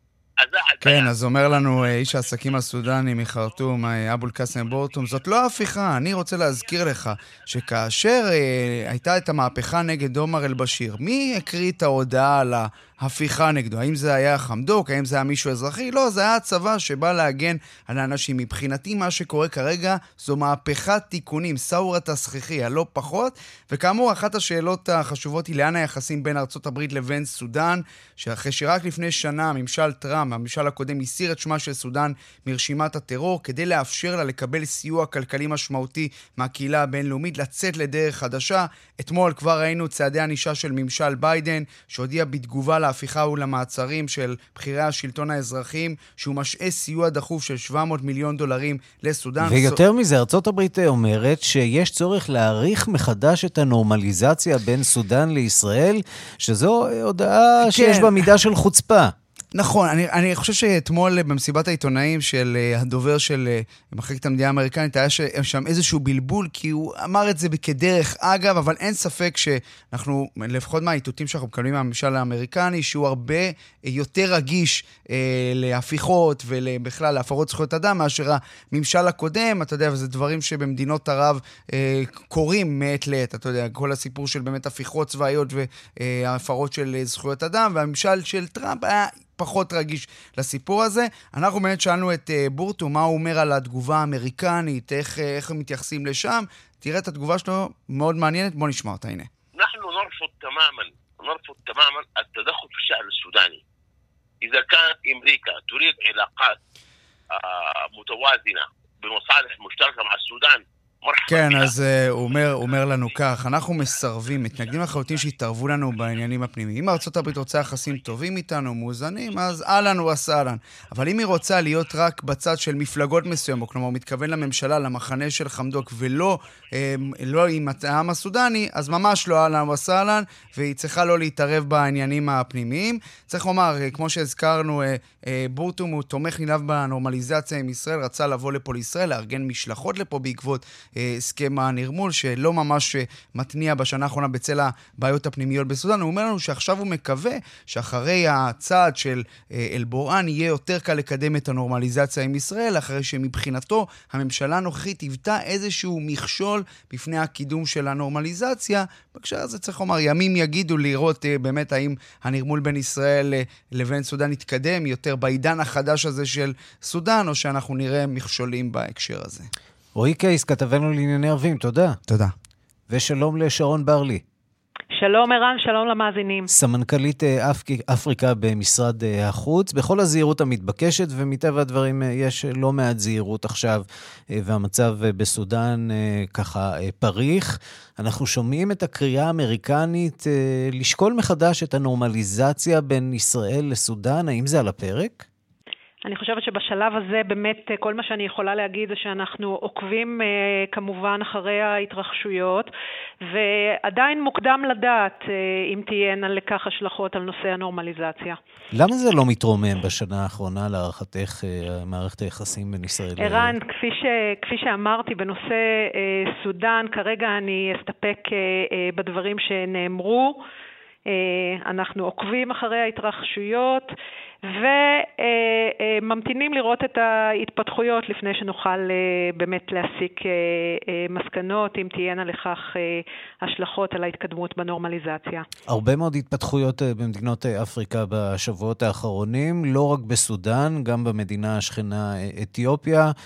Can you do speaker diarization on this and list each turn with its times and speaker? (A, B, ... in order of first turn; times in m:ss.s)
0:00.4-0:08.0 A
0:00.8-0:49.8 B
0:09.2-0:09.7 A
0:10.2-0:11.8 A
0:49.4-0:59.1 C
0:57.6-0:58.2 B
0:59.5-1:39.3 B
1:39.6-1:43.6 A
1:44.4-1:46.5 A
1:47.3-1:58.3 A
1:51.3-2:49.5 B
1:59.3-1:59.9 A
2:00.8-2:02.0 A
2:03.2-2:03.7 A
2:50.0-2:52.0 C
2:52.1-2:52.3 B
2:52.9-2:54.2 C
2:55.0-2:56.5 D
2:56.5-3:03.8 C
3:04.3-3:15.2 C
3:16.0-3:22.7 D
3:23.3-3:28.4 D
3:28.7-3:33.6 C
3:33.2-3:40.4 D
3:41.1-3:43.9 D
3:44.5-3:55.4 D
3:55.7-4:03.1 C